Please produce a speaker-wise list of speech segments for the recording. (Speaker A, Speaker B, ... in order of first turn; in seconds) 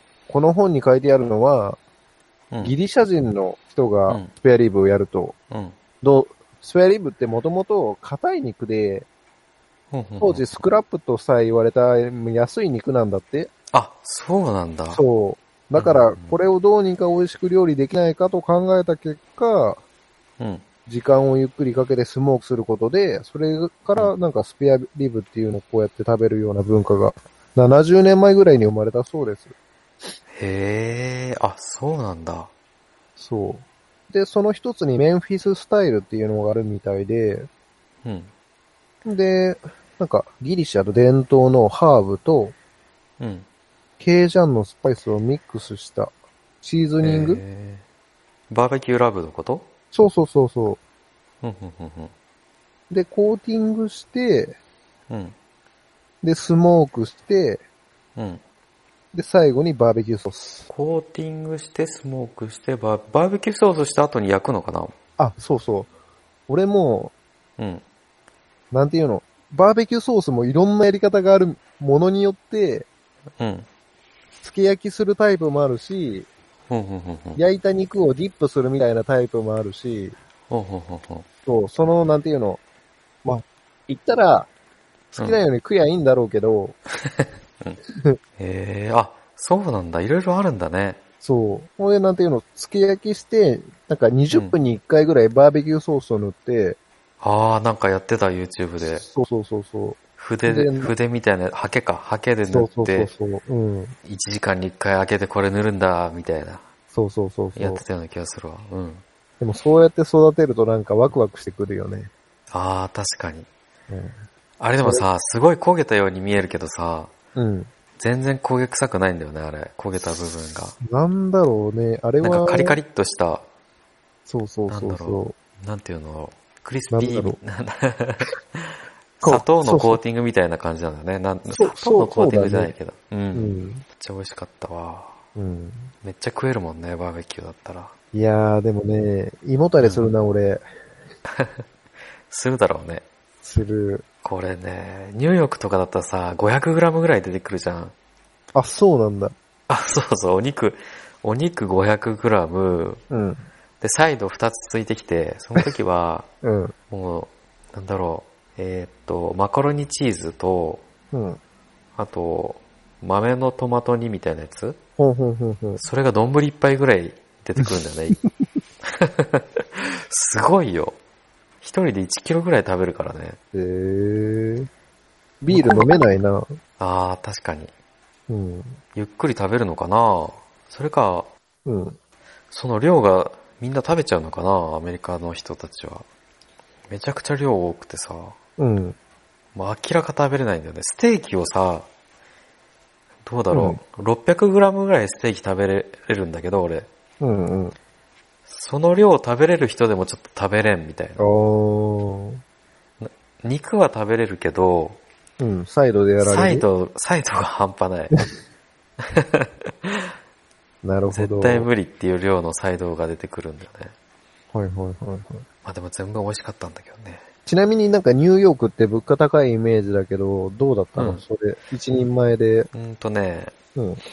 Speaker A: 0.3-1.8, 2.6-5.3, 6.0-9.1, 10.2-13.5, 14.9-19.8, 20.9-29.5, 33.2-37.5, 39.0-42.5, 44.0-47.4, 49.9-50.8, 52.9-54.6, 56.2-57.6, 59.1-60.7, 65.2-65.9, 66.5-67.1, 68.7-72.9, 74.4-76.3, 77.4-80.2, 81.5-82.6, 83.2-84.5, 85.1-86.8, 91.2-96.8, 98.8-100.9, 102.5-104.0, 106.9-107.8, 109.4-112.1, 113.9-114.2, 114.8-115.1, 117.4-117.7, 120.8-122.8, 124.3-125.3, 126.9-127.4, 129.2-130.0, 131.5-132.7, 133.3-133.8, 135.4-135.9, 138.1-140.7, 143.4-144.0, 148.6-149.3, 153.1-153.5, 156.4-156.7, 161.1-161.4, 165.0-165.8, 173.5-174.7, 175.4-176.6, 178.3-178.8, 181.7-182.0, 188.6-189.0, 193.5-193.8, 197.2-197.8, 201.2-202.4, 205.4-206.7, 210.8-211.7, 214.5-215.4, 217.5-222.7, 223.8-224.0
Speaker B: 5.5-5.8, 9.9-10.5, 13.7-15.0, 15.8-16.4, 20.4-20.6, 30.3-32.5, 38.0-38.3, 43.2-43.5, 47.0-47.8, 48.5-49.7, 51.4-52.1, 55.1-55.4, 58.2-58.4, 60.7-65.0, 67.6-67.8, 73.4-73.7, 76.7-77.4, 80.5-81.3, 87.0-87.8, 88.4-91.0, 97.2-99.0, 100.2-103.1, 104.0-106.7, 107.5-109.0, 112.5-113.5, 114.6-117.1, 118.0-120.8, 122.2-123.5, 124.7-135.2, 136.0-137.9, 139.8-140.1, 141.3-141.7, 142.3-143.0, 144.2-147.9, 149.7-153.0, 153.8-156.3, 156.9-160.8, 162.0-164.8, 165.8-168.2, 168.8-171.0, 171.6-173.4, 175.5-176.0, 176.8-177.7, 178.9-181.3, 182.5-186.1, 186.9-188.4, 189.6-191.9, 193.2-196.9, 198.5-201.2, 203.0-205.0, 206.2-208.2, 209.0-210.2, 211.1-213.9, 215.6-217.2, 221.0-221.2, 222.7-223.5